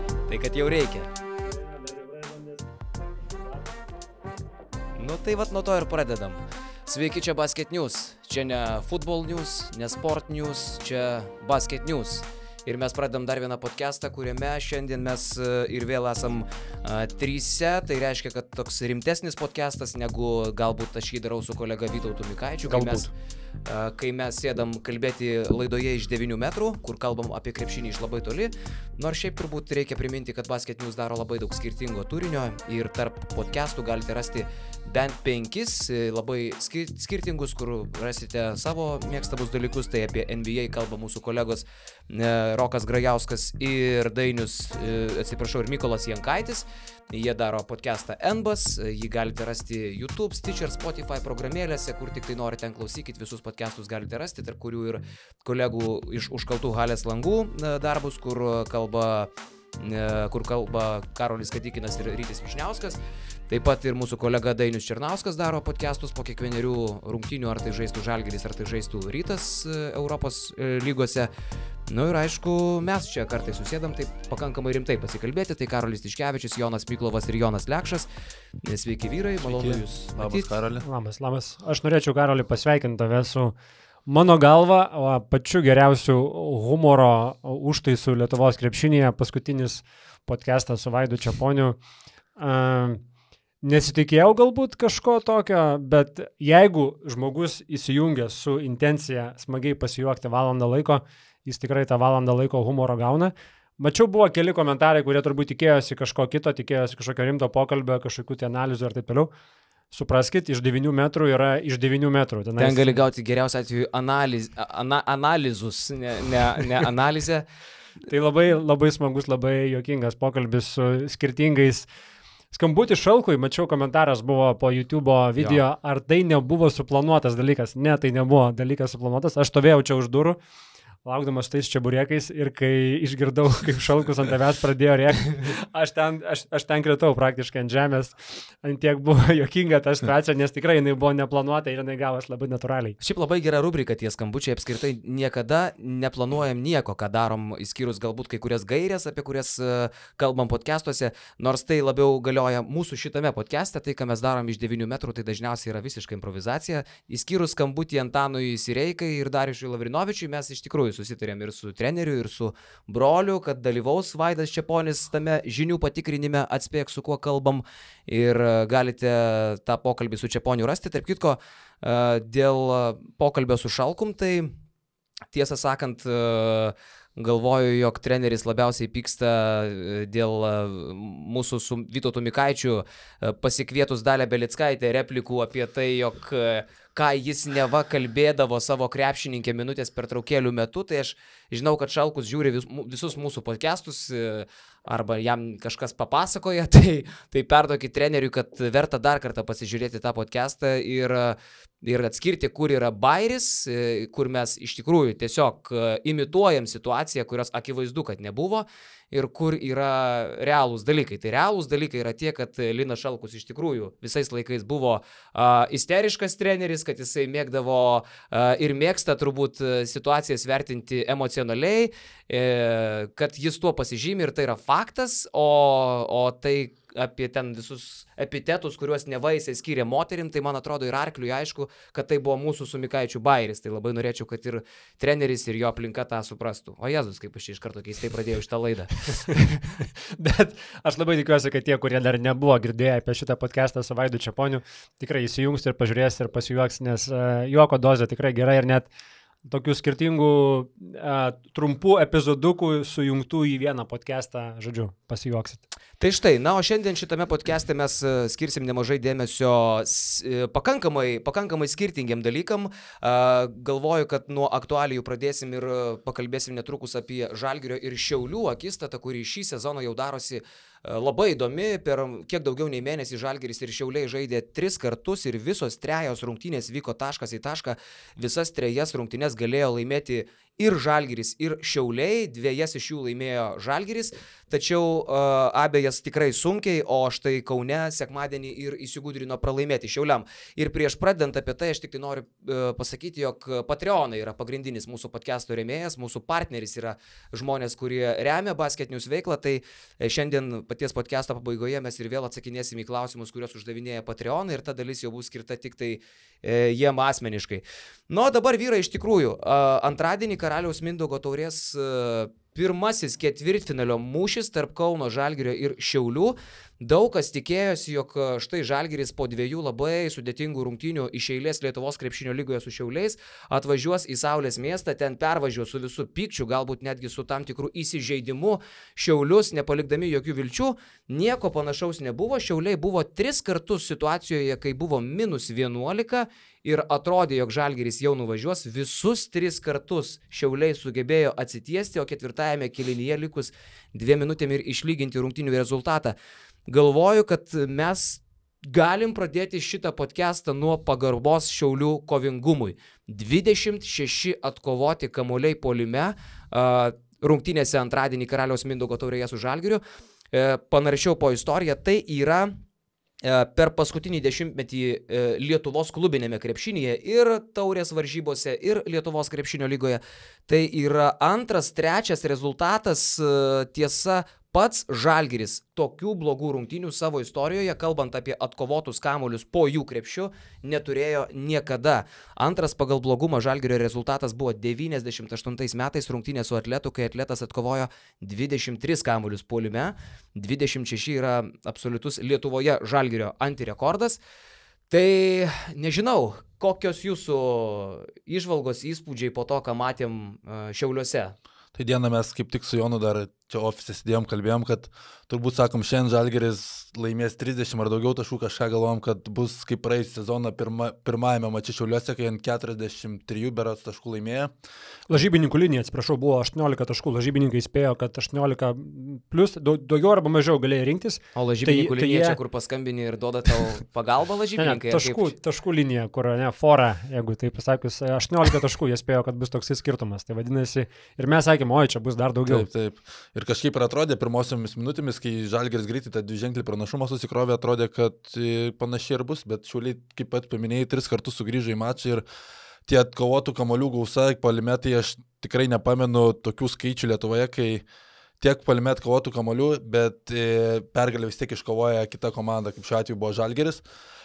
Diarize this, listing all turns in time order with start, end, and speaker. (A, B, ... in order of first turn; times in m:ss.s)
0:00.3-0:01.1 A
0:01.5-0:02.6 B
0:05.0-0:23.1 A
0:22.7-0:23.1 B
0:23.6-1:03.0 A
1:03.5-1:11.3 A
1:11.9-1:18.1 A
1:18.6-1:20.5 A
1:19.4-1:20.8 C
1:20.8-1:23.5 B
1:24.1-1:31.8 B
1:32.4-1:33.0 B
1:33.6-1:49.3 B
1:49.9-1:53.0 B
1:52.6-1:57.4 A
1:58.1-2:01.8 B
2:02.5-2:10.4 B
2:11.0-2:23.0 B
2:23.0-2:54.5 A
2:55.3-3:59.6 A
4:00.0-4:08.9 B
4:09.4-4:15.6 B
4:16.0-5:46.2 A
5:46.7-6:02.5 A
6:03.2-6:34.2 A
6:34.9-6:41.3 A
6:41.7-6:54.5 C
6:55.1-7:02.4 B
7:01.3-7:05.3 A
7:04.6-7:12.7 B
7:12.5-7:22.2 C
7:22.9-7:27.8 C
7:28.4-7:33.8 C